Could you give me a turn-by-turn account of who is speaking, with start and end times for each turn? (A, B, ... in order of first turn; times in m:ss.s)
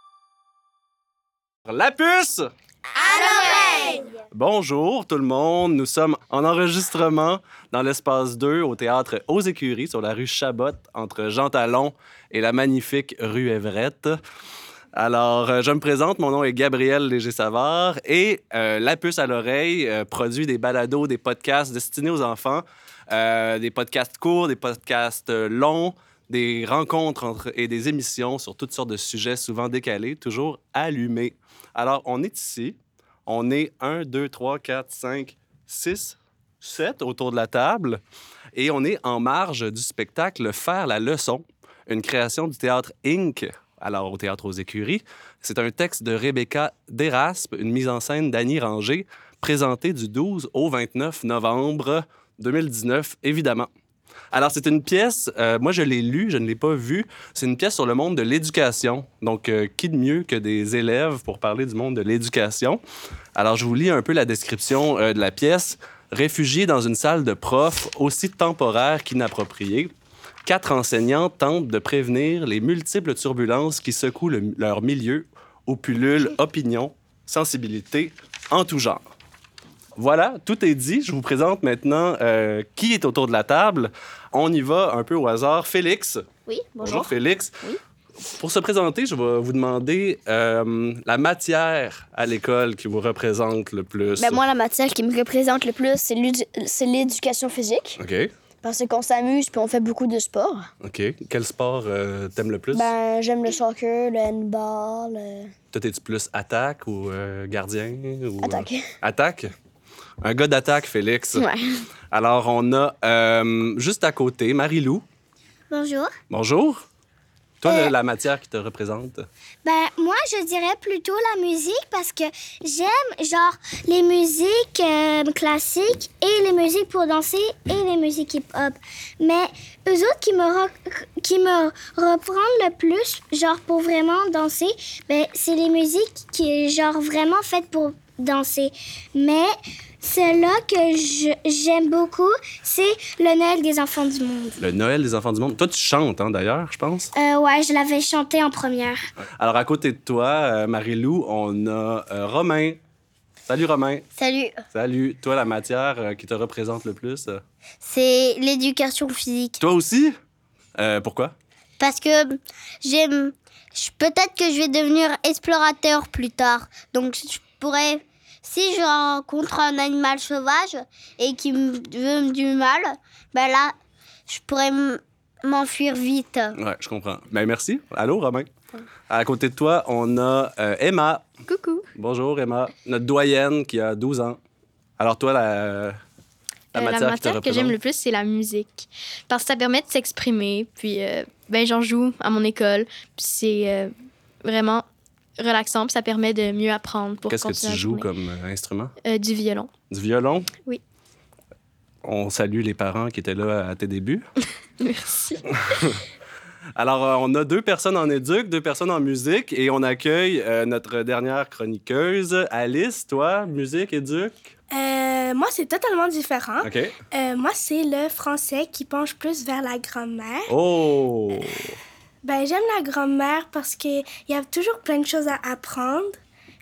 0:01.7-0:02.5 A
0:03.0-0:04.0 B
0:03.4-0:03.7 C
0:03.6-0:03.8 D
0:04.3-0:14.2 A
0:15.0-0:38.0 A
0:38.5-0:53.7 A
0:54.3-1:02.8 A
1:03.4-1:09.9 A
1:10.4-1:19.0 A
1:20.0-1:26.3 A
1:26.5-1:27.8 E
1:26.8-1:27.6 A
1:28.2-1:34.4 A
1:34.2-1:38.0 E
1:38.0-1:38.3 A
1:38.6-1:40.7 E
1:40.8-1:42.9 A
1:42.7-1:45.5 E
1:45.7-1:49.5 A
1:48.4-1:48.9 E
1:50.2-1:51.5 A
1:51.4-1:51.8 E
1:52.1-1:55.0 A
1:55.7-1:56.1 D
1:56.3-1:56.8 A
1:57.6-1:59.3 A
1:59.6-2:24.6 B
2:24.6-2:27.1 A
2:27.1-2:29.1 B
2:29.2-2:32.8 A
2:33.5-2:34.0 A
2:34.2-2:34.6 D
2:34.7-2:37.4 A
2:37.8-2:39.6 D
2:39.6-2:40.2 A
2:40.8-2:41.4 A
2:41.8-2:53.7 D
2:54.3-2:56.6 D
2:56.6-2:58.5 A
2:59.1-3:01.2 A
3:01.5-3:01.9 F
3:02.0-3:04.4 A
3:05.0-3:06.0 A
3:06.7-3:13.9 F
3:06.7-3:07.8 A
3:14.4-3:14.8 F
3:15.4-3:18.1 F
3:17.3-3:18.9 A
3:19.0-3:19.7 F
3:19.9-3:20.5 A
3:22.0-3:24.3 A
3:24.8-3:25.5 F
3:25.5-3:26.0 A
3:26.8-3:34.5 A
3:34.7-3:40.5 C
3:36.6-3:37.0 A
3:40.5-3:41.8 A
3:42.2-3:46.2 C